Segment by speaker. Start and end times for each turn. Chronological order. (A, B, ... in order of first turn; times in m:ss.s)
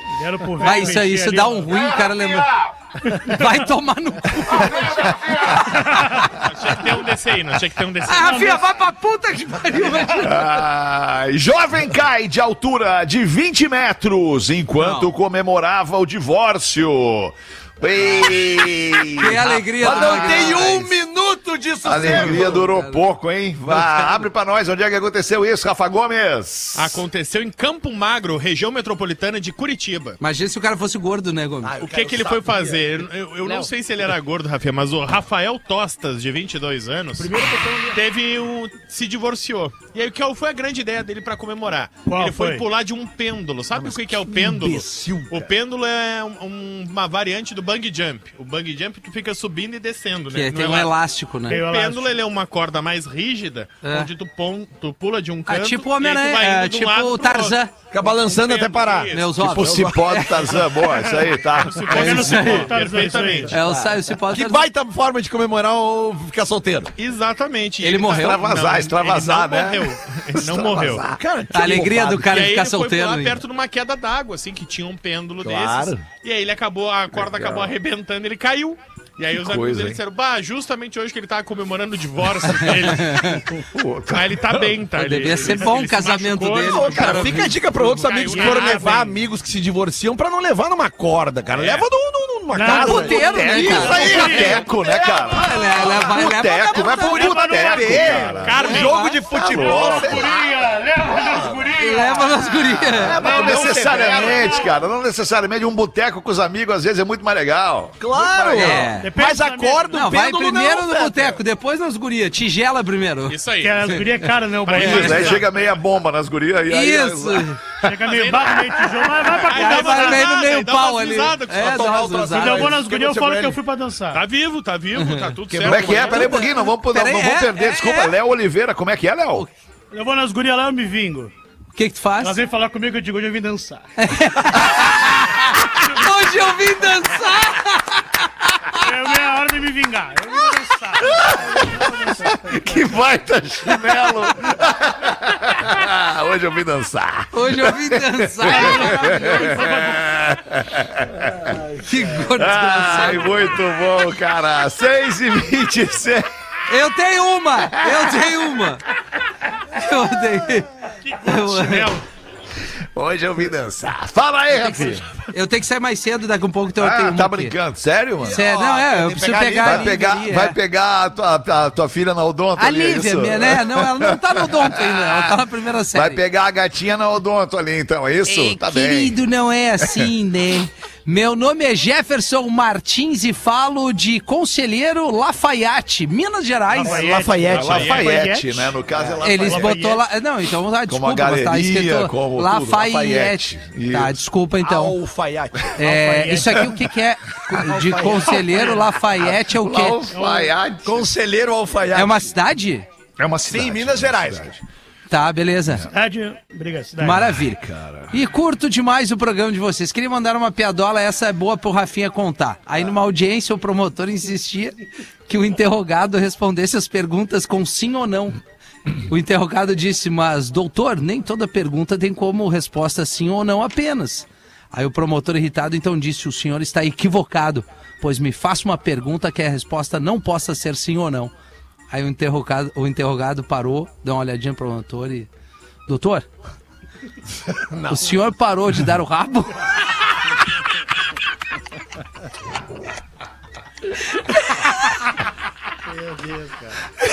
0:00.2-0:01.8 A
0:00.6-0:06.3 B
0:02.0-0:02.7 C
0:03.1-0:03.4 A
0:04.6-0:05.8 C
0:05.9-0:06.2 A
0:06.4-0:08.4 D
0:08.0-0:10.6 B
0:08.2-0:08.6 A
0:10.2-0:20.6 C
0:14.8-0:15.1 B
0:19.2-0:21.0 B
0:19.7-0:22.7 E
0:21.8-0:27.0 C
0:21.9-0:23.0 B
0:26.7-0:30.2 D
0:30.2-0:31.7 B
0:31.6-0:32.8 E
0:31.8-0:37.4 D
0:37.2-0:38.0 A
0:37.9-0:50.9 D
0:42.0-0:42.6 A
0:43.7-0:45.5 E
0:50.3-0:51.6 B
0:51.5-0:52.2 A
0:51.5-0:59.3 D
0:53.8-0:54.1 B
0:55.4-0:57.7 B
0:57.9-1:00.2 E
0:59.1-1:00.6 B
0:59.4-1:02.6 C
1:01.6-1:03.5 D
1:01.8-1:03.6 A
1:01.9-1:02.7 B
1:03.5-1:04.6 B
1:03.6-1:06.9 E
1:07.0-1:11.0 D
1:07.8-1:08.4 B
1:08.1-1:11.2 C
1:11.0-1:12.4 E
1:11.5-1:13.4 B
1:12.2-1:29.2 D
1:15.4-1:16.0 E
1:17.1-1:17.7 C
1:19.4-1:20.0 C
1:22.6-1:23.4 B
1:23.7-1:24.8 C
1:25.0-1:28.0 B
1:26.6-1:34.6 E
1:28.3-1:29.2 A
1:31.5-1:31.9 D
1:32.5-1:34.6 A
1:32.6-1:37.9 B
1:33.2-1:38.7 C
1:36.9-1:38.8 A
1:37.2-1:40.4 E
1:38.4-1:39.0 D
1:38.6-1:39.2 B
1:39.3-1:40.3 C
1:39.5-1:42.5 A
1:41.2-1:41.7 E
1:41.8-1:43.2 B
1:42.6-1:48.8 C
1:42.9-1:44.6 E
1:43.2-1:44.5 A
1:48.0-1:51.4 E
1:48.5-1:49.1 B
1:49.0-1:49.9 A
1:49.9-1:55.3 B
1:53.3-1:54.0 D
1:53.6-1:55.4 A
1:54.6-1:55.6 D
1:54.8-1:57.9 C
1:56.7-1:57.6 B
1:57.8-2:00.3 A
1:58.0-1:58.6 D
1:59.4-2:02.3 D
1:59.5-2:02.7 B
2:01.6-2:03.6 E
2:02.3-2:04.2 A
2:04.1-2:06.3 D
2:05.0-2:05.3 B
2:05.5-2:06.1 E
2:05.6-2:09.5 C
2:05.9-2:08.2 B
2:09.9-2:11.3 A
2:11.7-2:12.4 B
2:12.2-2:13.8 A
2:14.0-2:18.8 B
2:18.8-2:22.8 A
2:21.0-2:31.7 C
2:27.3-2:29.3 B
2:28.5-2:30.1 A
2:31.8-2:33.4 B
2:32.3-2:36.3 C
2:36.7-2:38.8 B
2:37.6-2:38.5 C
2:39.7-2:40.7 B
2:41.0-2:42.0 D
2:41.2-2:42.0 B
2:42.9-2:45.0 C
2:45.3-2:47.5 B
2:46.8-2:48.4 C
2:48.2-2:50.6 B
2:48.2-2:50.1 E
2:49.6-2:55.3 C
2:52.6-2:56.2 B
2:55.9-2:59.2 C
2:58.2-3:07.2 B
2:59.8-3:00.1 C
3:06.8-3:08.8 A
3:06.8-3:08.0 E
3:07.1-3:08.2 D
3:07.5-3:09.8 C
3:08.9-3:09.3 E
3:09.2-3:15.0 B
3:09.3-3:10.1 A
3:10.9-3:14.2 C
3:14.6-3:15.8 E
3:15.8-3:20.1 B
3:15.8-3:16.7 A
3:17.6-3:18.4 E
3:18.4-3:18.8 A
3:19.2-3:21.1 C
3:20.1-3:20.5 A
3:20.8-3:22.3 E
3:21.9-3:22.8 B
3:23.2-3:24.6 C
3:23.4-3:24.5 E
3:25.1-3:25.8 B
3:25.9-3:27.2 A
3:27.0-3:34.8 B
3:27.2-3:28.1 C
3:35.3-3:38.4 B
3:39.0-3:51.3 B
3:51.9-3:55.3 B
3:55.9-3:56.2 B
3:57.7-3:58.1 E
3:57.8-3:59.7 B
4:04.3-4:04.7 B
4:06.0-4:06.7 A